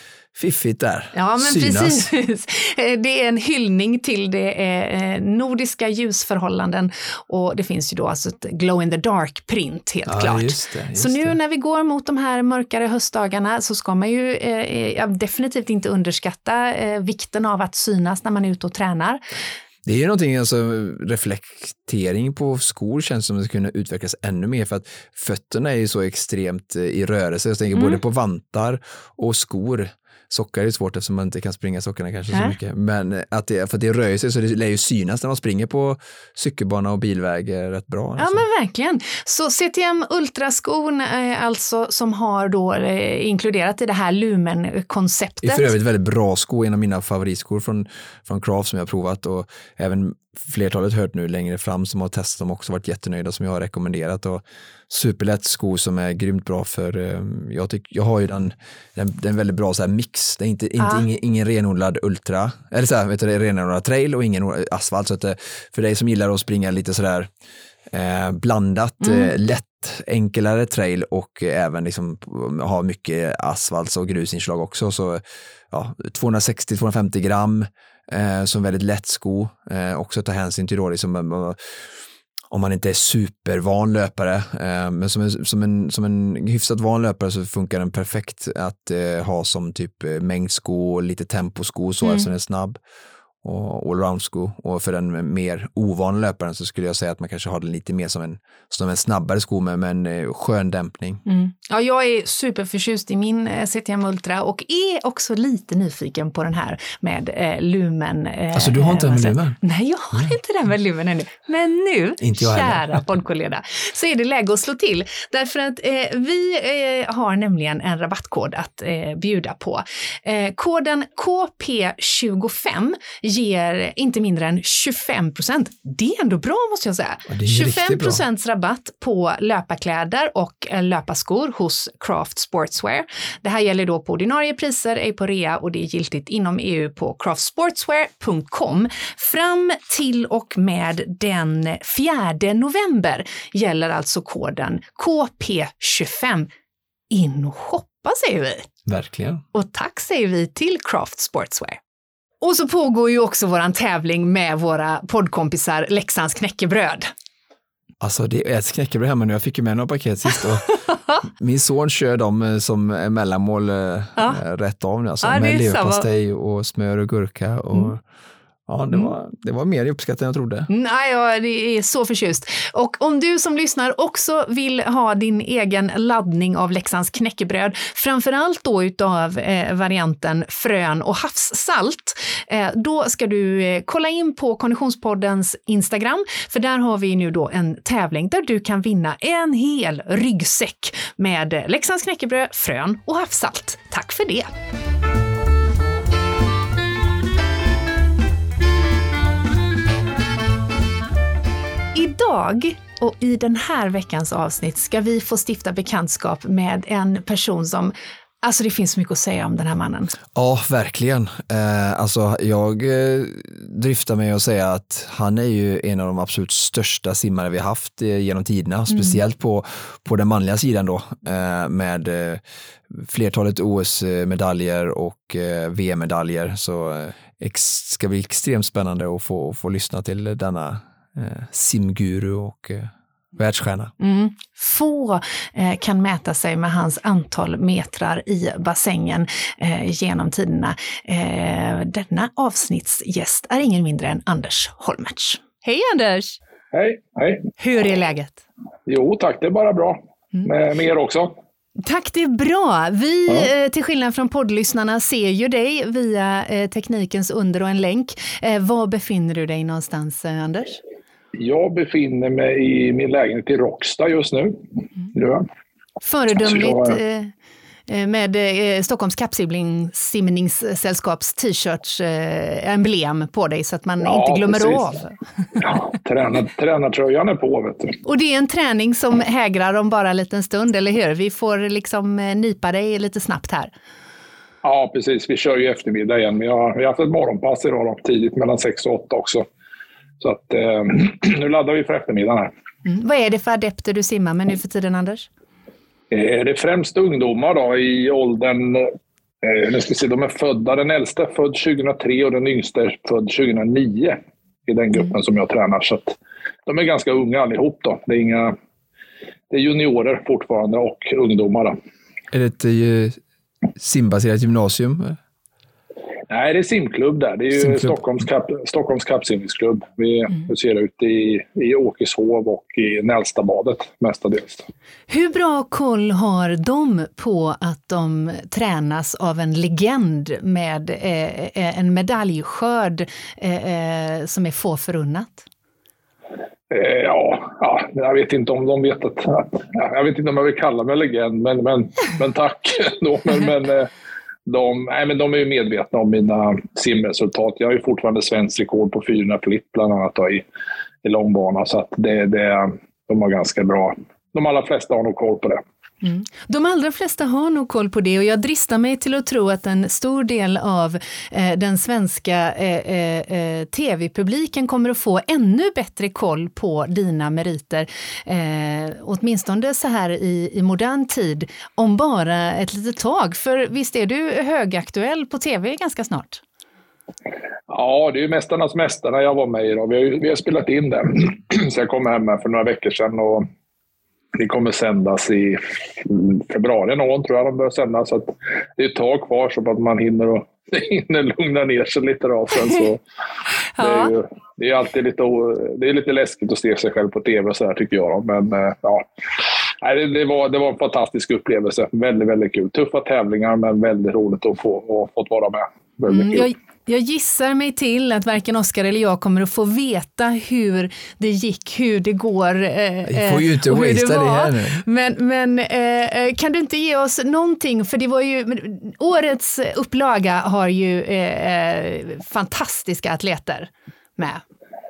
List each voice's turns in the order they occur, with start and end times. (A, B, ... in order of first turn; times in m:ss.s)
0:00.3-0:02.1 A
0:01.1-0:19.2 B
0:10.1-0:11.4 A
0:19.9-0:38.4 A
0:27.8-0:28.0 B
0:38.2-0:45.7 B
0:45.4-1:07.3 A
1:00.8-1:01.0 B
1:07.9-1:21.8 A
1:09.0-1:09.3 B
1:22.5-1:32.8 A
1:32.0-1:32.3 B
1:33.4-1:41.2 A
1:41.3-2:26.5 B
1:48.5-1:49.6 A
1:52.2-1:53.0 A
2:07.3-2:08.2 A
2:27.1-2:28.7 B
2:28.9-2:29.4 A
2:29.5-2:31.8 B
2:32.4-2:37.1 B
2:38.0-2:40.7 A
2:41.0-2:41.2 B
2:41.3-2:48.0 A
2:45.2-2:46.1 B
2:48.7-2:50.7 A
2:50.7-3:14.5 B
3:21.9-3:30.2 B
3:30.4-3:53.9 A
3:38.9-3:39.2 B
3:54.0-4:06.4 B
4:06.7-4:07.5 C
4:07.6-4:08.4 B
4:08.9-4:11.3 C
4:11.8-4:20.8 B
4:21.4-4:24.6 C
4:25.1-4:25.4 C
4:26.0-4:27.3 B
4:26.4-4:27.0 C
4:27.9-4:35.2 B
4:34.0-4:34.9 C
4:35.6-4:38.0 C
4:38.1-4:43.7 B
4:44.6-4:49.5 C
4:50.2-4:52.5 C
4:52.8-4:55.3 B
4:56.1-5:08.6 C
5:09.5-5:11.8 C
5:12.3-5:13.2 A
5:13.8-5:15.2 A
5:16.3-5:24.7 C
5:17.6-5:18.0 A
5:25.1-5:35.4 B
5:36.7-5:43.9 C
5:44.5-5:50.4 C
5:51.0-5:55.6 C
5:56.0-6:16.4 B
6:17.7-6:23.5 C
6:24.4-6:33.0 C
6:33.8-6:34.1 B
6:33.8-6:46.5 C
6:46.1-7:04.4 B
6:53.1-6:54.8 A